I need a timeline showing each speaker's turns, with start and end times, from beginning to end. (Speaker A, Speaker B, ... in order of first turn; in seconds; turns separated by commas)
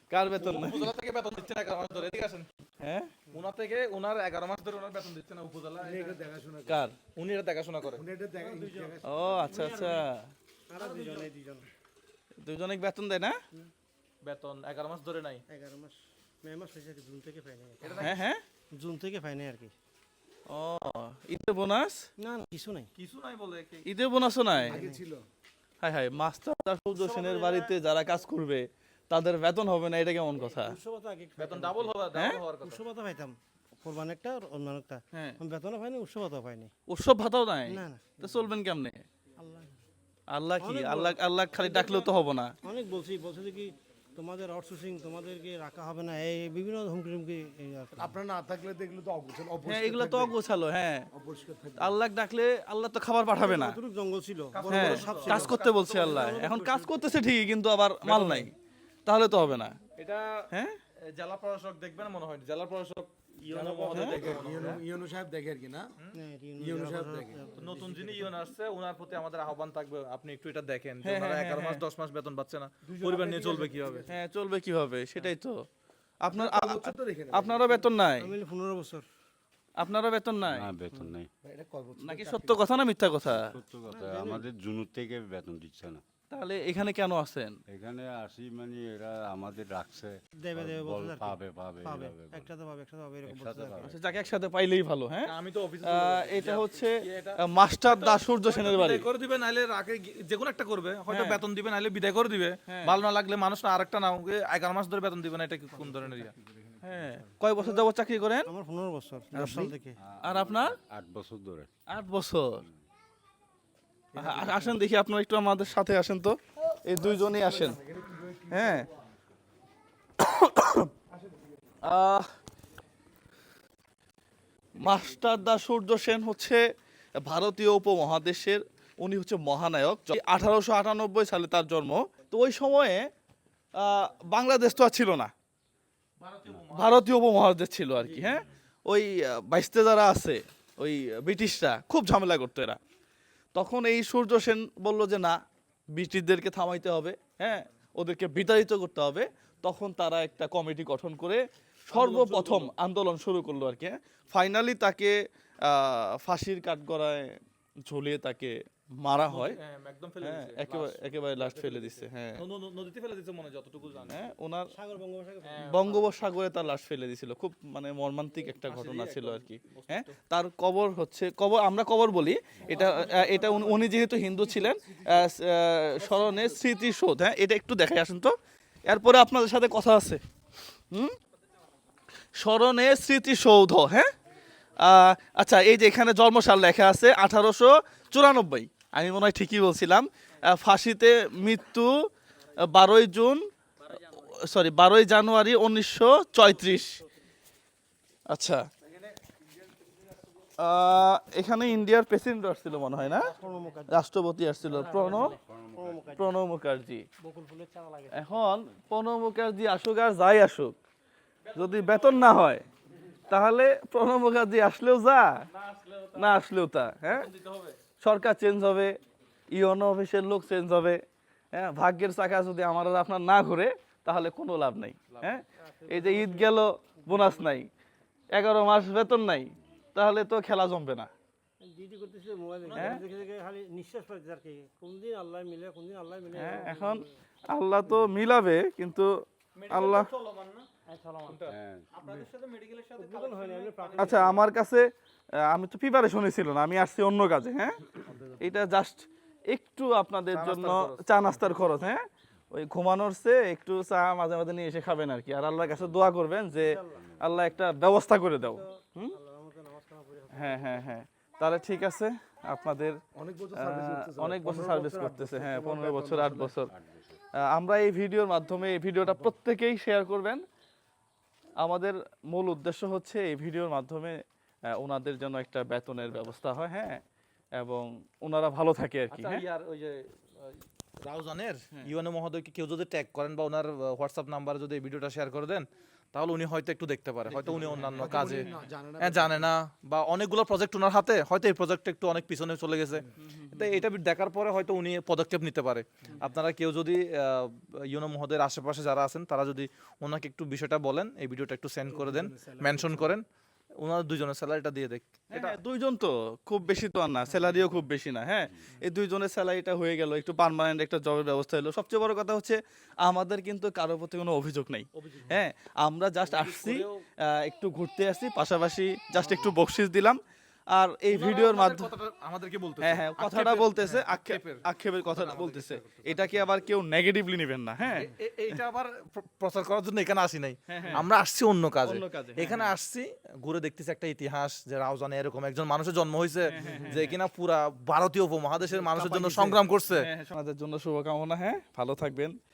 Speaker A: 0.1-0.9, Speaker B: 0.4-2.5, Speaker A: 2.8-3.1, Speaker B: 3.3-6.2, Speaker C: 5.8-6.8, Speaker A: 6.7-7.0, Speaker B: 7.2-8.9, Speaker C: 7.9-9.4, Speaker A: 9.1-10.3, Speaker D: 9.5-10.1, Speaker D: 10.7-11.7, Speaker C: 10.9-11.3, Speaker A: 12.4-13.4, Speaker B: 14.2-15.4, Speaker D: 15.5-18.2, Speaker B: 17.8-18.2, Speaker A: 18.0-18.4, Speaker D: 18.7-19.7, Speaker A: 20.5-22.1, Speaker D: 22.2-22.9, Speaker B: 23.0-23.9, Speaker A: 23.9-24.8, Speaker D: 24.6-25.0, Speaker C: 24.7-25.3, Speaker A: 25.8-30.8, Speaker D: 26.9-27.8, Speaker D: 30.4-31.9, Speaker B: 31.4-32.8, Speaker A: 32.1-32.4, Speaker D: 32.6-36.7, Speaker A: 35.1-35.4, Speaker A: 36.9-39.0, Speaker D: 37.7-38.5, Speaker D: 39.4-39.8, Speaker A: 40.3-42.5, Speaker D: 40.6-48.1, Speaker C: 48.0-50.4, Speaker A: 49.6-51.1, Speaker C: 51.1-52.0, Speaker A: 51.8-53.8, Speaker D: 53.4-57.1, Speaker B: 54.5-56.4, Speaker C: 54.6-55.0, Speaker A: 54.7-58.5, Speaker B: 58.0-58.5, Speaker A: 59.1-59.8, Speaker B: 60.0-60.4, Speaker B: 61.1-64.8, Speaker C: 63.5-65.9, Speaker A: 63.9-64.2, Speaker D: 66.1-67.9, Speaker C: 66.6-68.2, Speaker B: 67.5-74.1, Speaker A: 71.0-71.8, Speaker C: 72.8-74.1, Speaker A: 74.1-75.7, Speaker A: 76.2-78.3, Speaker C: 76.3-77.8, Speaker D: 78.2-79.1, Speaker A: 79.8-80.7, Speaker E: 80.5-81.3, Speaker C: 81.4-82.6, Speaker A: 82.0-83.5, Speaker E: 83.3-86.0, Speaker D: 83.9-84.5, Speaker A: 86.3-87.6, Speaker E: 87.7-92.5, Speaker D: 90.4-93.9, Speaker E: 93.3-94.0, Speaker A: 93.8-95.3, Speaker B: 95.2-106.3, Speaker A: 95.8-99.1, Speaker A: 101.1-101.4, Speaker A: 102.7-103.0, Speaker C: 106.5-106.8, Speaker A: 106.8-108.5, Speaker D: 108.5-110.0, Speaker A: 109.3-110.8, Speaker E: 110.0-111.7, Speaker A: 111.9-112.7, Speaker C: 114.2-114.7, Speaker A: 114.2-117.8, Speaker C: 116.9-118.9, Speaker A: 118.5-118.9, Speaker A: 120.2-120.9, Speaker C: 121.1-121.7, Speaker A: 121.8-122.3, Speaker A: 124.8-126.6, Speaker A: 127.2-133.1, Speaker A: 133.8-135.3, Speaker B: 136.2-137.1, Speaker A: 136.8-142.8, Speaker B: 138.1-138.5, Speaker A: 143.5-145.4, Speaker A: 145.9-157.3, Speaker B: 151.9-152.7, Speaker A: 157.9-159.6, Speaker B: 159.3-164.2, Speaker A: 160.2-162.4, Speaker A: 164.1-164.7, Speaker D: 164.7-166.2, Speaker B: 165.4-166.0, Speaker A: 165.6-178.3, Speaker B: 168.6-170.2, Speaker C: 172.6-175.3, Speaker C: 176.0-176.6, Speaker A: 178.9-180.2, Speaker A: 182.4-184.1, Speaker A: 184.8-191.9, Speaker A: 192.7-197.0, Speaker A: 198.3-198.7, Speaker A: 200.6-203.3, Speaker D: 203.0-204.1, Speaker A: 203.9-205.4, Speaker D: 204.7-206.4, Speaker E: 205.2-206.0, Speaker A: 206.2-207.1, Speaker D: 207.2-208.4, Speaker A: 208.1-210.8, Speaker B: 211.4-212.5, Speaker A: 211.6-212.6, Speaker A: 213.3-215.5, Speaker B: 215.5-216.4, Speaker A: 216.2-217.3, Speaker B: 217.1-217.8, Speaker A: 218.0-218.9, Speaker A: 219.5-221.0, Speaker A: 221.5-227.7, Speaker B: 225.1-225.4, Speaker D: 225.6-227.5, Speaker A: 228.3-231.1, Speaker D: 231.7-237.1, Speaker B: 232.7-233.1, Speaker A: 236.3-240.1, Speaker B: 239.6-240.7, Speaker D: 240.9-241.4, Speaker B: 241.2-244.4, Speaker E: 241.5-241.9, Speaker D: 243.0-244.4, Speaker A: 244.0-244.9, Speaker A: 245.4-247.8, Speaker C: 248.1-248.6, Speaker A: 248.4-259.2, Speaker B: 250.3-251.6, Speaker D: 256.6-257.1, Speaker D: 258.4-260.8, Speaker A: 260.3-263.0, Speaker C: 263.1-266.6, Speaker A: 263.6-266.7, Speaker E: 266.7-267.2, Speaker A: 267.5-270.4, Speaker A: 271.6-274.2, Speaker A: 274.7-277.0, Speaker A: 277.6-279.4, Speaker B: 279.1-303.2, Speaker C: 287.3-289.5, Speaker A: 287.9-288.3, Speaker A: 293.2-293.7, Speaker C: 301.9-303.1, Speaker B: 303.8-305.6, Speaker A: 305.3-320.2, Speaker B: 315.0-315.4, Speaker B: 316.3-317.0, Speaker A: 320.7-321.9, Speaker B: 321.1-326.5, Speaker A: 322.8-328.1, Speaker B: 327.9-340.1, Speaker A: 330.7-331.1, Speaker A: 331.8-332.6, Speaker A: 336.5-337.1, Speaker A: 338.8-342.4